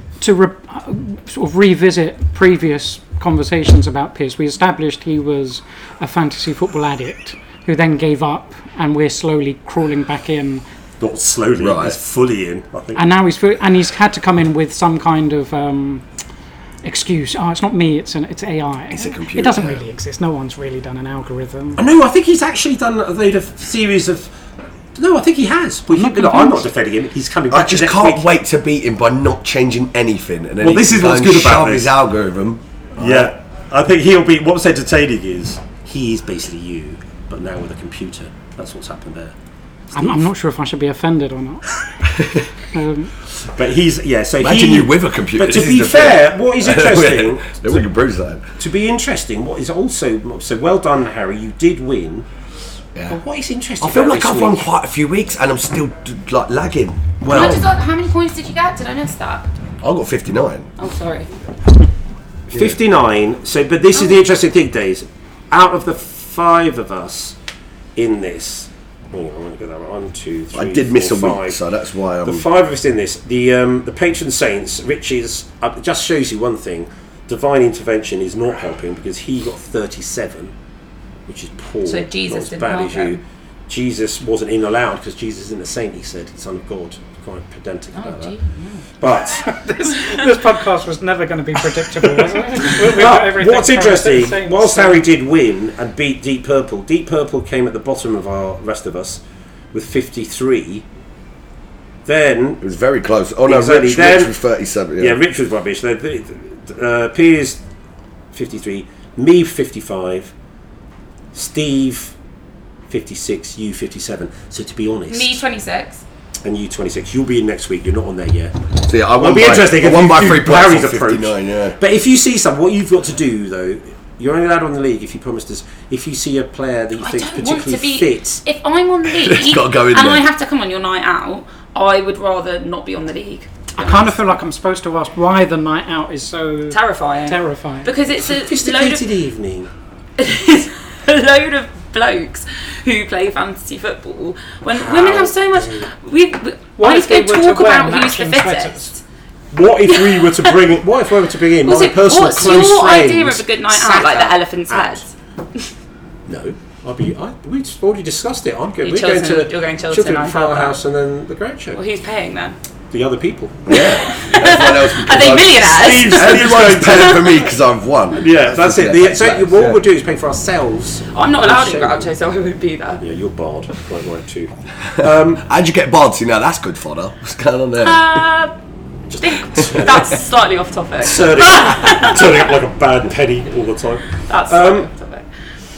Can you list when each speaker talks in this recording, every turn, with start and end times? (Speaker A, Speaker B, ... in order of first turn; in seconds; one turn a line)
Speaker A: 0.2-10.6
Speaker B: 11.0-13.0
Speaker C: 11.6-12.0
Speaker A: 12.9-16.0
Speaker A: 16.8-21.8
Speaker C: 18.9-19.9
Speaker B: 21.8-24.3
Speaker B: 24.9-28.3
Speaker A: 25.9-26.7
Speaker C: 27.5-33.3
Speaker B: 30.6-31.9
Speaker B: 33.0-39.3
Speaker B: 39.9-40.3
Speaker A: 40.0-41.8
Speaker C: 42.2-42.4
Speaker A: 42.7-43.1
Speaker B: 43.4-47.9
Speaker C: 44.4-48.4
Speaker B: 48.6-52.3
Speaker B: 53.1-54.7
Speaker C: 53.8-57.7
Speaker B: 57.2-57.7
Speaker D: 57.3-59.5
Speaker C: 59.8-60.7
Speaker D: 60.8-61.3
Speaker C: 62.5-62.8
Speaker B: 62.5-67.4
Speaker B: 68.0-71.6
Speaker C: 70.5-72.5
Speaker B: 72.2-80.5
Speaker B: 81.3-88.3
Speaker D: 81.9-83.2
Speaker D: 87.9-88.9
Speaker B: 89.0-89.5
Speaker A: 89.3-95.0
Speaker B: 92.0-99.2
Speaker B: 99.7-100.9
Speaker B: 102.1-102.6
Speaker C: 102.6-105.2
Speaker B: 103.5-104.4
Speaker B: 105.0-107.6
Speaker B: 108.3-110.3
Speaker B: 111.3-112.2
Speaker B: 112.9-115.4
Speaker D: 115.1-116.0
Speaker B: 116.4-118.6
Speaker C: 118.8-121.8
Speaker B: 119.1-128.4
Speaker D: 127.0-134.1
Speaker C: 129.1-130.2
Speaker A: 133.8-137.9
Speaker D: 136.7-139.1
Speaker B: 138.2-139.7
Speaker D: 140.2-149.0
Speaker B: 144.8-145.9
Speaker A: 146.8-148.9
Speaker B: 149.5-155.1
Speaker D: 149.9-150.3
Speaker D: 151.6-155.1
Speaker B: 156.3-161.8
Speaker D: 158.8-160.8
Speaker D: 161.8-162.6
Speaker B: 162.9-163.7
Speaker C: 163.7-169.8
Speaker D: 163.7-167.3
Speaker B: 165.6-167.4
Speaker B: 168.2-172.1
Speaker D: 171.1-173.0
Speaker B: 173.0-175.4
Speaker C: 175.0-178.3
Speaker D: 177.8-178.5
Speaker B: 179.1-180.2
Speaker D: 179.2-182.4
Speaker B: 181.0-184.9
Speaker D: 184.3-185.3